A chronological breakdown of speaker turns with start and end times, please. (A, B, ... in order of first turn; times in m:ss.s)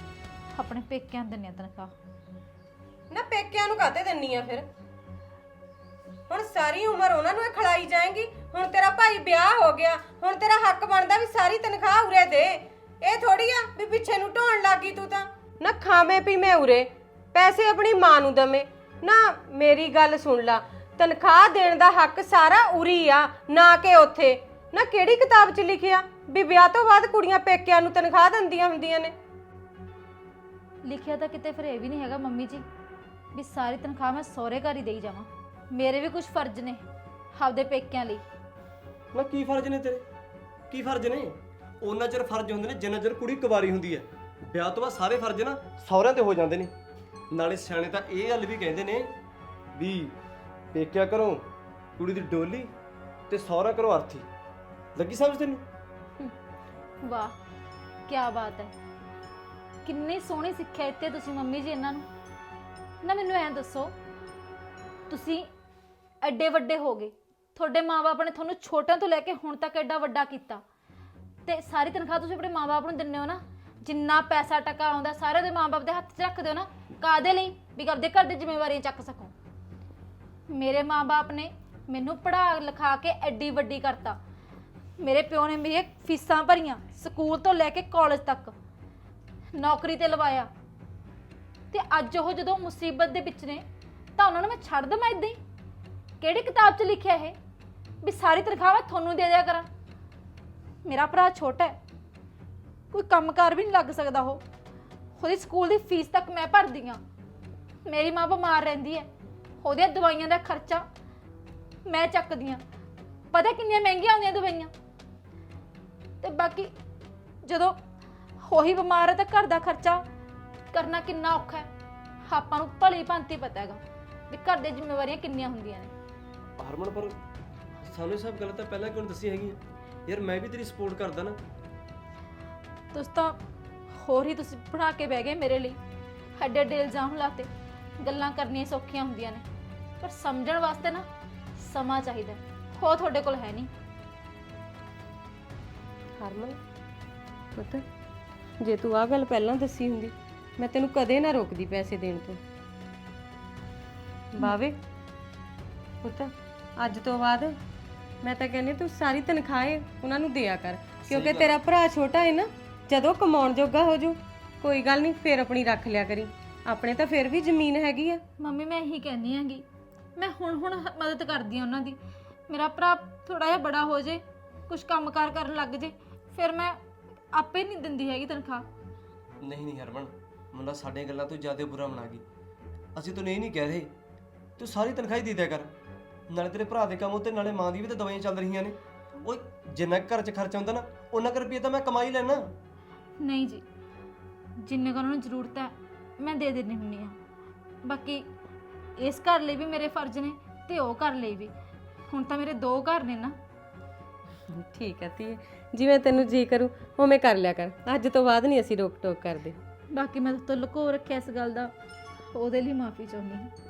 0:00.6-0:01.9 A
0:03.1-0:04.7 B
0:06.3-0:29.1 B
0:30.8-0:32.6 A
0:33.3-0:38.2 A
0:39.1-0:40.0 C
0:40.7-0:46.7 C
0:47.3-0:49.2 C
0:49.7-0:50.2 C
0:50.7-0:51.5 C
0:52.0-0:52.7 C
0:53.3-0:54.3 C
0:55.0-0:55.6 C
0:57.0-0:57.4 A
0:58.1-0:58.7 A
0:59.8-1:02.1 A
1:03.0-1:04.0 A
1:05.1-1:05.5 A
1:06.2-1:10.6 A
1:11.5-1:19.3 A
1:20.5-1:24.2 A
1:25.0-1:28.5 A
1:29.6-1:30.5 A
1:31.7-1:33.6 A
1:34.2-1:35.4 A
1:36.2-1:37.4 A
1:38.0-1:39.7 A
1:40.8-1:41.8 A
1:42.9-1:44.4 A
1:45.2-1:47.0 A
1:47.8-1:49.1 A
1:49.6-1:50.8 A
1:51.8-1:52.6 A
1:53.3-1:54.7 A
1:56.2-1:56.7 A
1:57.4-1:57.8 A
1:58.4-2:00.0 A
2:00.7-2:01.7 A
2:02.3-2:05.9 A
2:06.6-2:07.2 C
2:07.8-2:11.4 C
2:12.9-2:13.4 A
2:13.9-2:15.8 A
2:16.4-2:17.5 A
2:18.0-2:19.4 A
2:20.0-2:21.0 A
2:21.6-2:23.7 A
2:26.2-2:26.6 B
2:27.6-2:27.8 B
2:28.6-2:32.4 B
2:34.4-2:34.8 B
2:36.0-2:37.6 B
2:38.2-2:48.2 B
2:41.1-2:41.6 C
2:48.4-2:56.8 A
2:57.3-2:58.7 A
2:59.4-3:02.2 C
3:03.0-3:03.9 C
3:04.6-3:05.7 C
3:06.3-3:12.5 C
3:13.2-3:13.6 A
3:14.6-3:17.2 A
3:17.8-3:18.3 A
3:19.0-3:21.5 A
3:22.1-3:23.4 A
3:24.5-3:29.6 B
3:29.9-3:31.7 A
3:32.3-3:33.5 A